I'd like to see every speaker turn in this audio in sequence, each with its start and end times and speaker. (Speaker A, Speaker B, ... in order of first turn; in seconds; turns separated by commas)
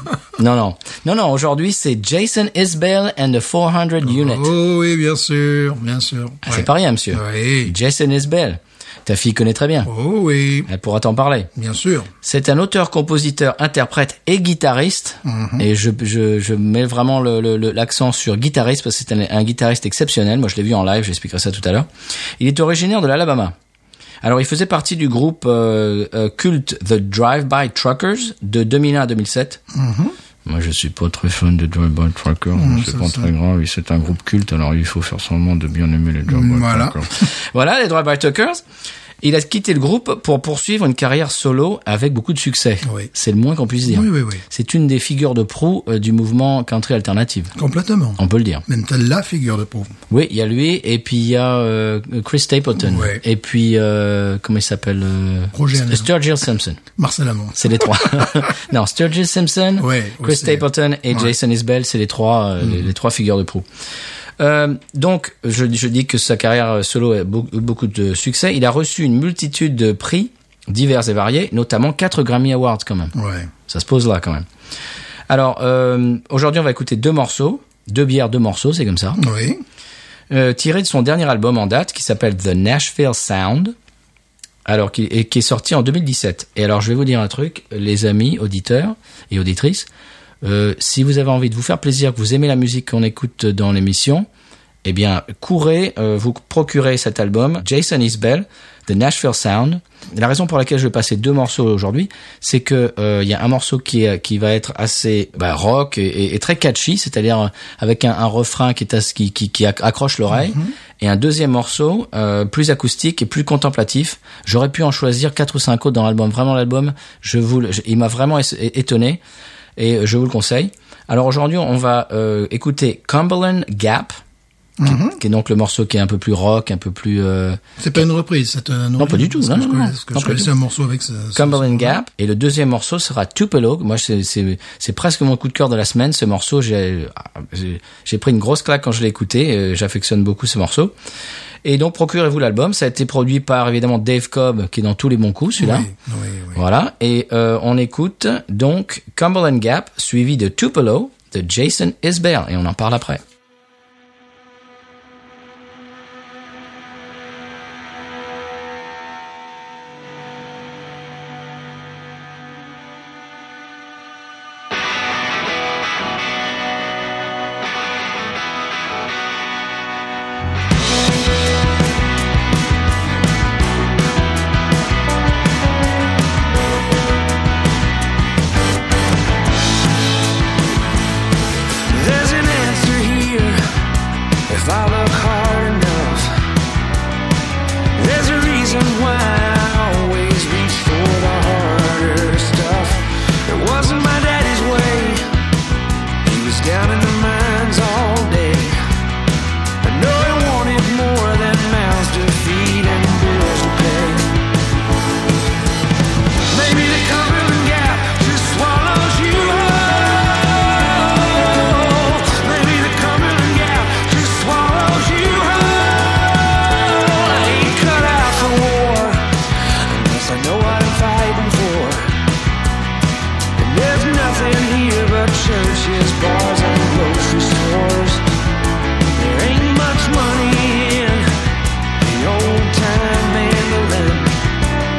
Speaker A: 0.4-4.5, Speaker B: 4.0-7.7, Speaker A: 6.4-9.9, Speaker B: 9.8-10.7, Speaker A: 10.7-11.5, Speaker B: 11.5-12.1, Speaker A: 12.2-21.9, Speaker B: 15.2-15.7, Speaker A: 22.4-23.5, Speaker A: 24.2-29.6, Speaker B: 29.7-30.1, Speaker A: 30.4-38.6, Speaker B: 32.5-33.3, Speaker B: 36.3-37.0, Speaker A: 39.2-47.5, Speaker B: 42.8-43.1, Speaker B: 43.8-44.4, Speaker B: 47.5-50.0, Speaker A: 48.2-48.6, Speaker A: 50.1-56.8, Speaker B: 52.8-53.2, Speaker B: 55.5-56.1, Speaker B: 57.0-58.5, Speaker A: 57.6-63.6, Speaker B: 59.8-61.3, Speaker B: 62.6-62.9, Speaker A: 64.4-73.1, Speaker B: 73.1-73.5, Speaker A: 73.7-74.5, Speaker A: 75.3-79.2, Speaker B: 79.2-79.6, Speaker A: 80.3-83.7, Speaker A: 84.7-89.9, Speaker A: 90.4-94.3, Speaker A: 94.8-119.2, Speaker B: 110.3-110.7, Speaker A: 119.8-124.2, Speaker B: 124.8-125.2, Speaker A: 124.8-127.6, Speaker B: 127.8-132.0, Speaker A: 129.0-130.5, Speaker A: 131.3-140.9, Speaker A: 141.6-145.9, Speaker B: 145.6-146.6, Speaker A: 146.6-153.2, Speaker C: 181.9-183.6, Speaker C: 184.5-186.3, Speaker C: 187.9-195.2, Speaker C: 196.2-198.8, Speaker C: 199.8-204.3, Speaker C: 206.5-219.3, Speaker C: 219.9-222.1, Speaker C: 223.6-228.3, Speaker C: 229.1-231.3, Speaker C: 232.0-234.4